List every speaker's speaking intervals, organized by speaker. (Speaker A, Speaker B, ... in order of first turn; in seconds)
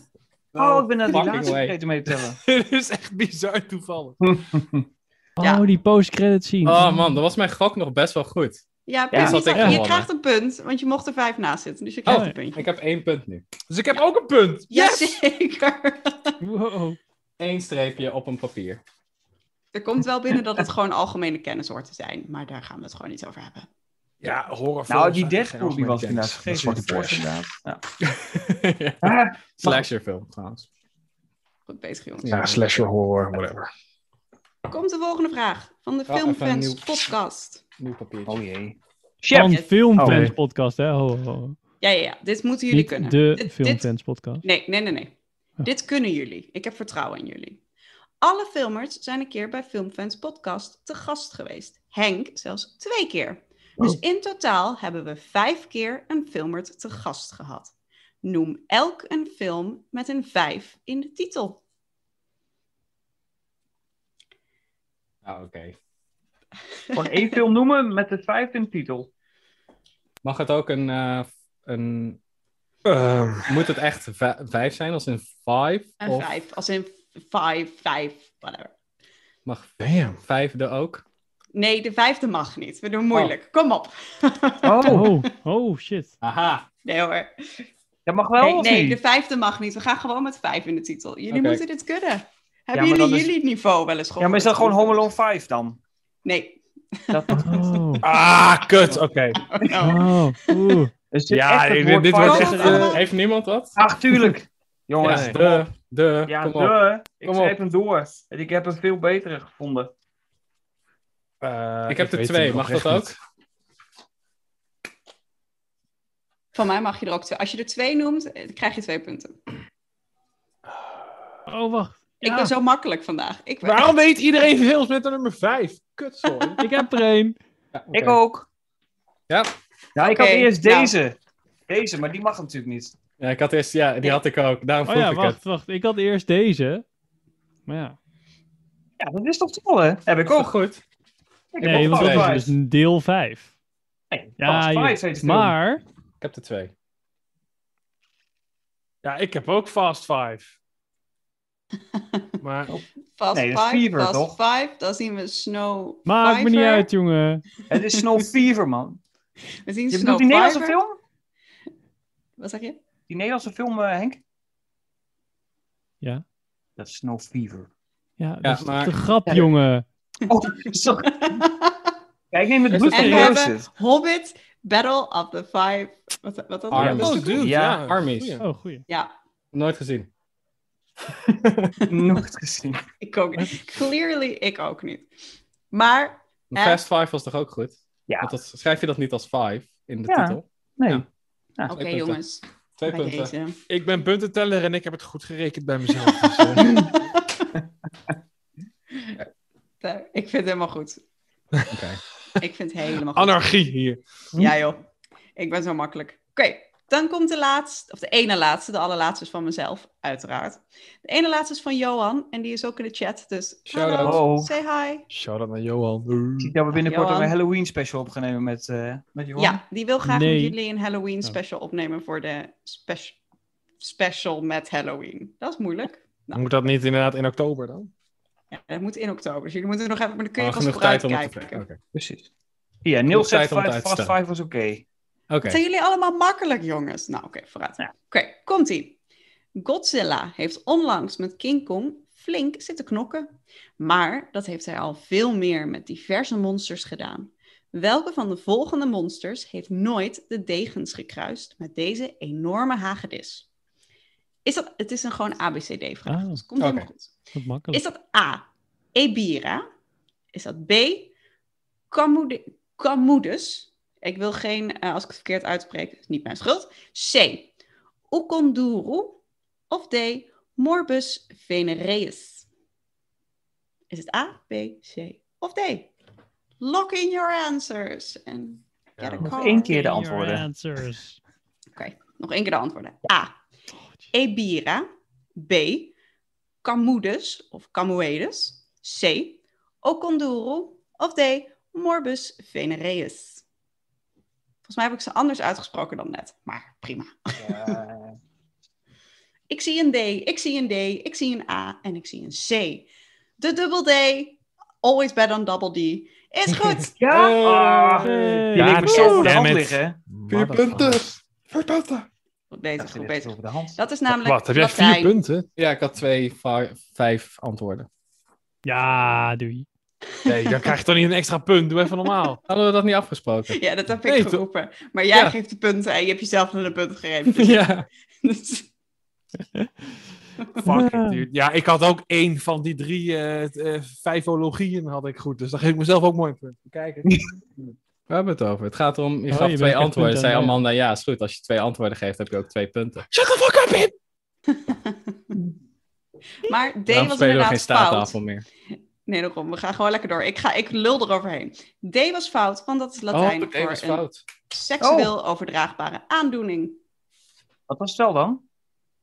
Speaker A: 0.5-1.8, 6.6-10.1, 12.1-13.4, 17.4-18.8, 28.0-30.7, 32.2-32.8, 36.1-37.1, 37.8-38.4, 65.2-65.8, 70.2-72.2, 73.5-76.3, 79.5-81.0, 86.2-86.7, 91.3-91.6, 102.5-103.8, 105.0-107.5, 111.9-113.2, 127.7-128.2, 129.3-129.5, 133.2-135.4, 140.3-140.8, 141.6-142.4, 146.2-146.7, 168.4-168.9, 176.7-178.4, 179.5-180.1, 181.3-181.7, 186.5-191.0, 191.7-192.2, 192.8-193.3, 201.7-202.0, 213.7-214.2, 230.4-231.8, 233.1-234.1, 235.3-235.6, 256.6-256.9, 307.1-308.1, 310.3-311.1, 315.6-317.9, 322.5-323.6, 327.3-327.9, 336.7-337.0, 338.1-343.1, 346.9-348.4, 353.1-354.2
Speaker B: 0.6-2.4, 4.2-4.8, 9.1-9.5, 24.9-27.8, 29.0-29.9, 38.3-40.3, 66.9-69.1, 84.6-85.1, 88.0-89.0, 92.7-93.3, 94.2-95.8, 97.1-97.5, 101.1-103.0, 103.8-105.6, 106.3-109.9, 127.9-128.4, 129.9-131.1, 131.7-132.9, 139.0-140.5, 141.5-142.5, 144.1-145.6, 152.7-154.4, 157.7-159.0, 159.9-161.0, 163.1-164.2, 166.8-167.7, 170.3-171.4, 172.3-173.7, 177.3-177.8, 181.9-182.8, 190.1-191.1, 214.0-214.5, 216.4-219.6, 231.9-232.3, 232.8-234.8, 279.2-280.5, 297.4-298.1, 307.0-310.0, 312.8-313.8, 337.1-337.3, 354.8-355.1, 357.7-358.4
Speaker C: 2.4-4.4, 13.7-15.2, 24.2-27.3, 32.3-33.7, 40.0-40.3, 72.8-73.6, 79.8-80.2, 98.0-99.5, 101.3-103.0, 105.0-105.6, 111.4-113.2, 123.6-126.6, 149.0-150.5, 152.4-152.7, 172.8-173.3, 176.7-178.4, 193.7-196.8, 203.1-204.0, 215.1-216.5, 226.3-227.9, 308.4-312.1, 314.1-315.5, 320.2-322.4, 324.1-324.4, 330.6-336.6, 343.1-343.9
Speaker D: 5.4-7.1, 9.5-9.8, 12.1-12.3, 16.4-17.0, 39.3-41.6, 42.7-44.4, 84.8-86.2, 97.3-98.0, 99.8-100.9, 121.5-122.5, 126.6-127.3, 134.8-136.8, 137.7-137.9, 141.6-143.5, 144.4-145.8, 156.1-157.4, 168.2-169.8, 178.4-178.8, 220.0-220.6, 256.1-256.4, 257.3-257.8, 279.5-281.2, 308.0-309.3, 318.6-319.6, 330.6-331.2, 339.3-340.6
Speaker E: 8.9-12.6, 14.7-16.4, 19.7-23.7, 31.7-32.7, 34.7-37.6, 39.5-39.7, 41.8-43.9, 44.4-47.6, 48.2-57.7, 58.2-61.6, 66.9-67.3, 76.0-78.7, 81.5-85.2, 86.8-87.7, 88.4-95.0, 96.2-97.9, 99.3-100.8, 102.2-103.0, 116.5-119.3, 122.2-124.0, 130.0-130.9, 153.2-156.9, 159.7-160.8, 162.4-162.8, 171.1-171.9, 172.9-177.4, 183.0-185.1, 185.7-186.8, 191.7-193.6, 196.5-197.5, 199.8-201.0, 202.4-203.4, 204.3-204.8, 205.3-215.1, 216.8-217.3, 219.4-223.2, 223.8-226.4, 228.5-231.6, 235.4-239.0, 239.6-253.4, 254.4-257.1, 257.7-259.6, 260.3-261.1, 261.9-267.5, 268.1-272.5, 273.9-275.9, 276.6-279.8, 281.8-283.4, 284.1-285.9, 286.6-293.4, 294.6-297.8, 299.5-302.9, 303.4-306.9, 312.5-315.1, 320.2-320.7, 323.5-327.7, 328.2-328.7, 344.5-345.0, 346.4-348.2, 349.1-356.8